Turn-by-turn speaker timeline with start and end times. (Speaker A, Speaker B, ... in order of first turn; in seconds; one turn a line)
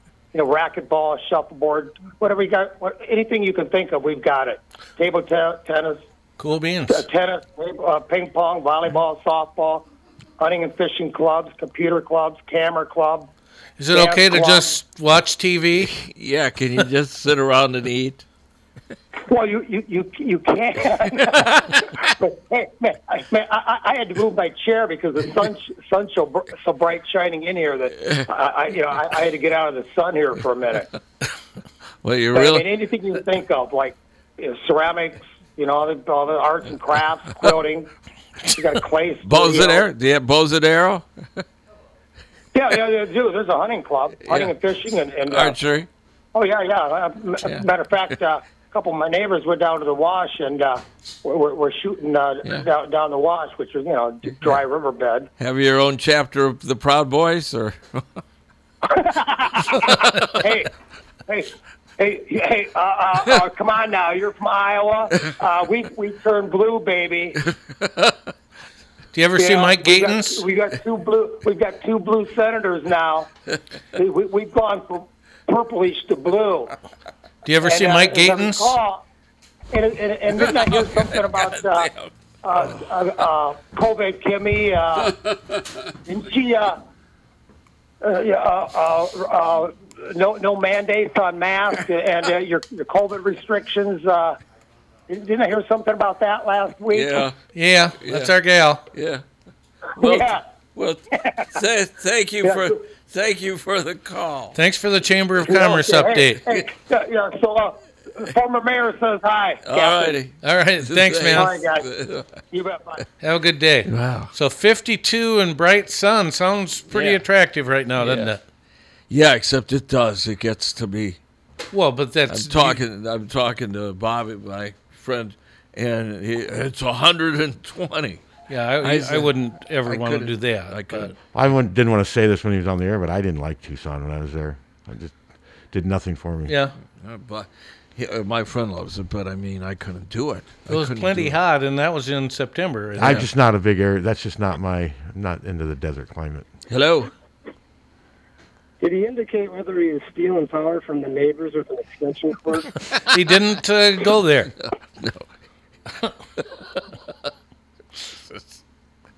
Speaker A: 0.3-6.0
Speaker B: 6.4-7.0
Speaker A: 6.9-9.8
Speaker A: 10.4-13.3
Speaker B: 13.8-15.9
Speaker A: 13.9-14.8
Speaker C: 15.8-18.2
Speaker A: 19.2-30.9
Speaker C: 21.3-21.8
Speaker C: 32.0-32.7
Speaker A: 32.3-37.9
Speaker A: 38.5-39.9
Speaker C: 39.2-41.0
Speaker A: 42.5-45.5
Speaker C: 44.2-44.5
Speaker C: 45.3-45.9
Speaker A: 46.3-55.3
Speaker C: 55.4-58.0
Speaker A: 58.9-60.7
Speaker C: 60.0-60.3
Speaker A: 61.3-67.4
Speaker C: 67.8-68.1
Speaker B: 69.1-70.5
Speaker A: 69.4-73.3
Speaker A: 73.9-76.7
Speaker B: 77.4-78.7
Speaker A: 77.6-79.0
Speaker A: 79.7-81.9
Speaker C: 80.5-82.1
Speaker A: 82.4-85.1
Speaker A: 86.0-86.8
Speaker A: 88.0-94.4
Speaker A: 95.1-97.2
Speaker C: 96.9-97.3
Speaker B: 97.5-98.8
Speaker C: 98.0-98.3
Speaker C: 98.9-99.2
Speaker A: 100.0-100.4
Speaker C: 100.0-104.6
Speaker A: 101.1-101.6
Speaker A: 102.4-102.7
Speaker B: 104.5-106.5
Speaker A: 105.4-110.2
Speaker C: 109.6-112.4
Speaker B: 110.4-111.5
Speaker A: 111.3-111.8
Speaker A: 112.5-113.0
Speaker B: 113.2-118.4
Speaker C: 113.9-114.3
Speaker C: 116.9-117.2
Speaker C: 118.0-118.3
Speaker C: 119.1-121.2
Speaker B: 121.7-122.8
Speaker C: 122.3-128.2
Speaker B: 128.5-131.1
Speaker C: 128.8-131.1
Speaker D: 131.3-135.2
Speaker D: 135.7-136.5
Speaker B: 136.5-136.7
Speaker C: 137.0-141.4
Speaker B: 140.7-143.3
Speaker D: 143.0-146.4
Speaker C: 146.7-147.1
Speaker E: 148.8-152.8
Speaker B: 153.1-154.5
Speaker C: 158.1-158.5